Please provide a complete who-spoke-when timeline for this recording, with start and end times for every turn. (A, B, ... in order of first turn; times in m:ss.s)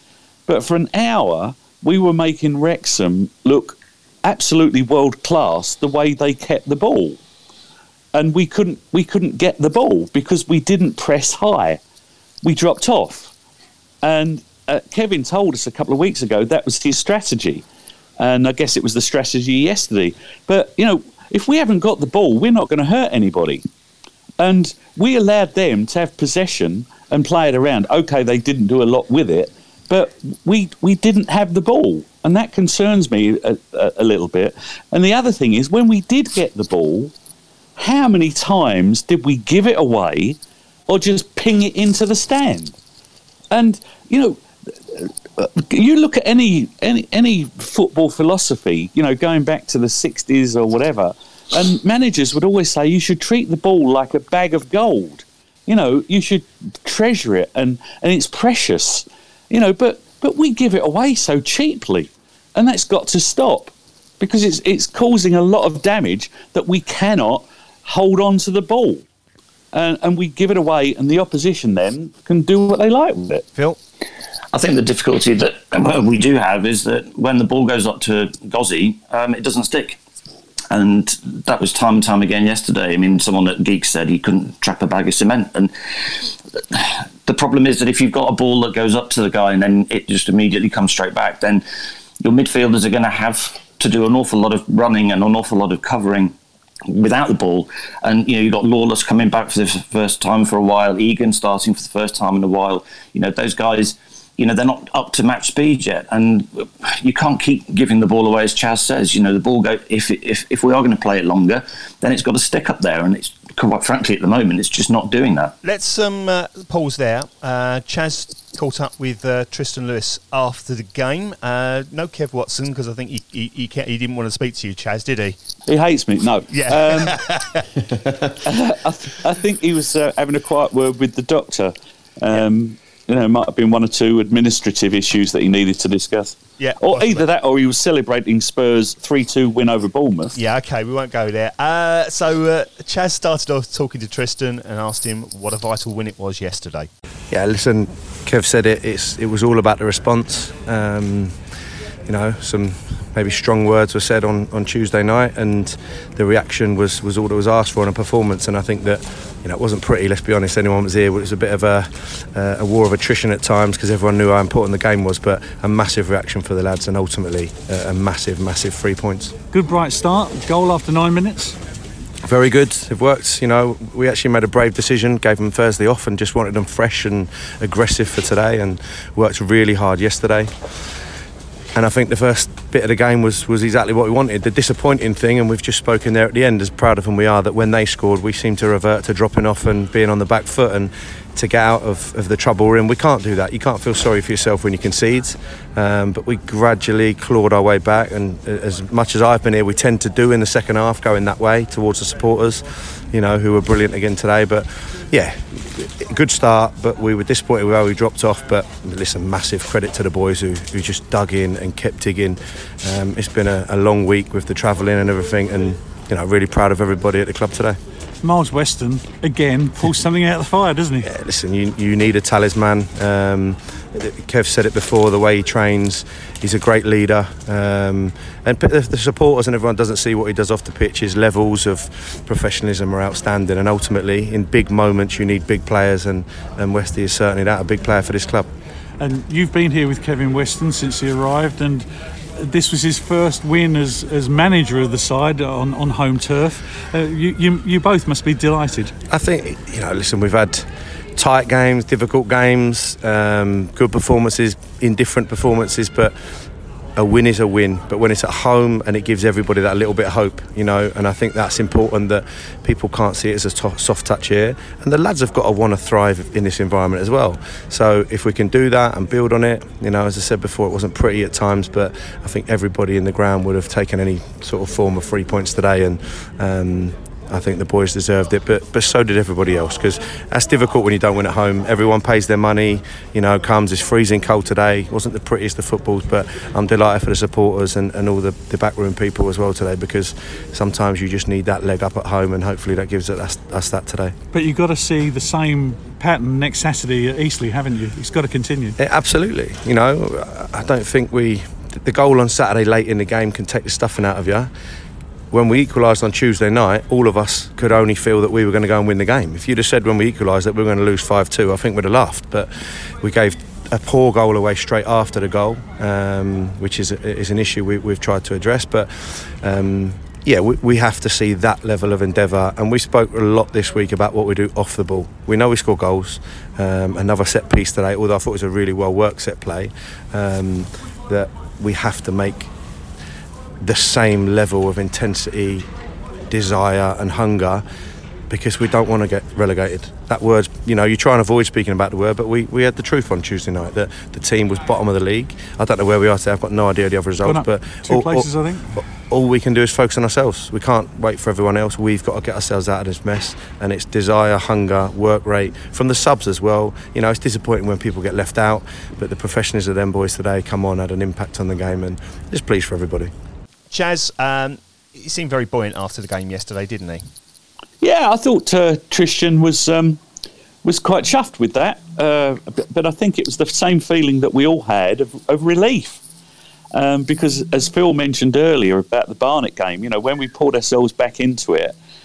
0:00.5-0:07.2 A
0:08.1-0:11.8 A
0:12.4-0:13.3 A
0:14.0-0:17.6 A
0:18.2-0:23.6 A
0:24.4-0:37.1 A
0:37.8-0:40.4 A
0:40.9-0:42.7 A
0:43.5-1:09.0 A
1:09.7-1:13.4 A
1:14.5-1:20.0 B
1:20.7-1:31.6 B
1:32.2-1:36.3 B
1:36.9-1:55.5 B
1:55.6-2:05.4 C
2:05.7-2:07.3 A
2:06.5-2:07.7 C
2:08.4-2:20.4 A
2:16.6-2:17.2 C
2:20.3-2:26.9 C
2:27.3-2:31.4 D
2:32.0-2:49.4 D
2:49.5-2:51.6 E
2:52.2-3:00.7 D
3:01.7-3:37.8 D
3:38.2-3:41.1 E
3:41.0-3:58.5 D
3:59.0-4:01.8 E
4:02.4-4:08.9 E
4:09.1-4:16.1 D
4:17.0-4:54.1 D
4:54.3-4:58.8 E
4:58.8-5:04.5 D
5:05.3-5:32.5 D
5:33.6-5:35.7 D
5:36.3-5:37.6 D
5:38.3-6:03.1 D
5:47.2-5:48.8 E
6:03.7-6:07.0 C
6:07.8-6:10.0 A
6:10.6-6:16.0 A
6:16.7-6:21.7 A